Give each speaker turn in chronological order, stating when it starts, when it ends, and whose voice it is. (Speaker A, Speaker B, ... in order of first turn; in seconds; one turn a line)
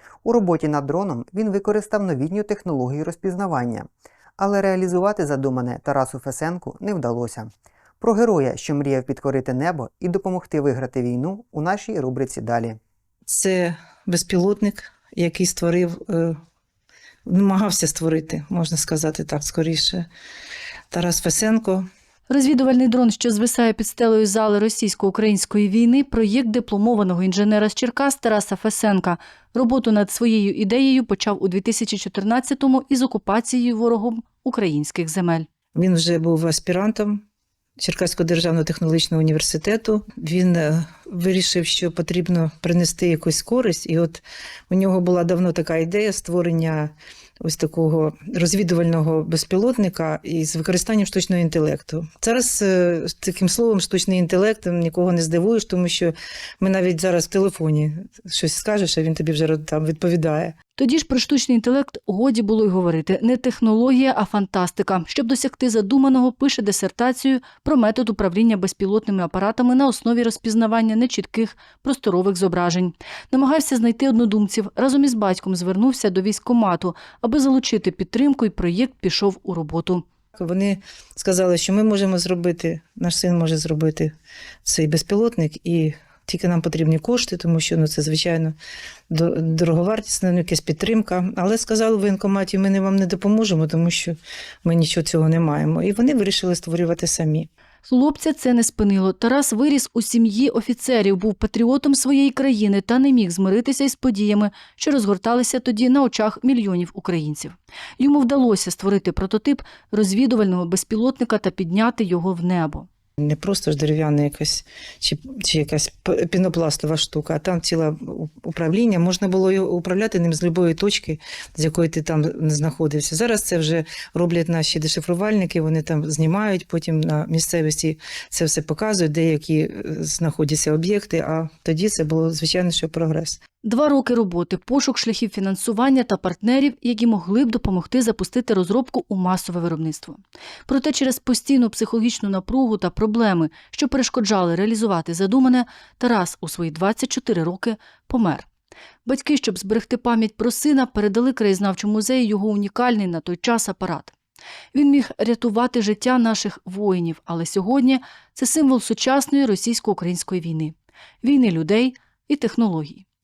Speaker A: 0.2-12.8
Speaker B: 13.3-16.4
Speaker B: 17.3-20.1
Speaker B: 20.9-21.9
Speaker C: 22.3-35.5
Speaker B: 35.8-37.2
Speaker B: 37.8-60.6
Speaker C: 60.8-80.0
Speaker B: 80.4-84.1
Speaker B: 84.7-88.6
Speaker B: 89.1-97.5
Speaker C: 97.9-112.9
Speaker B: 113.2-133.4
Speaker C: 133.6-148.5
Speaker C: 149.1-154.1
Speaker C: 154.7-163.1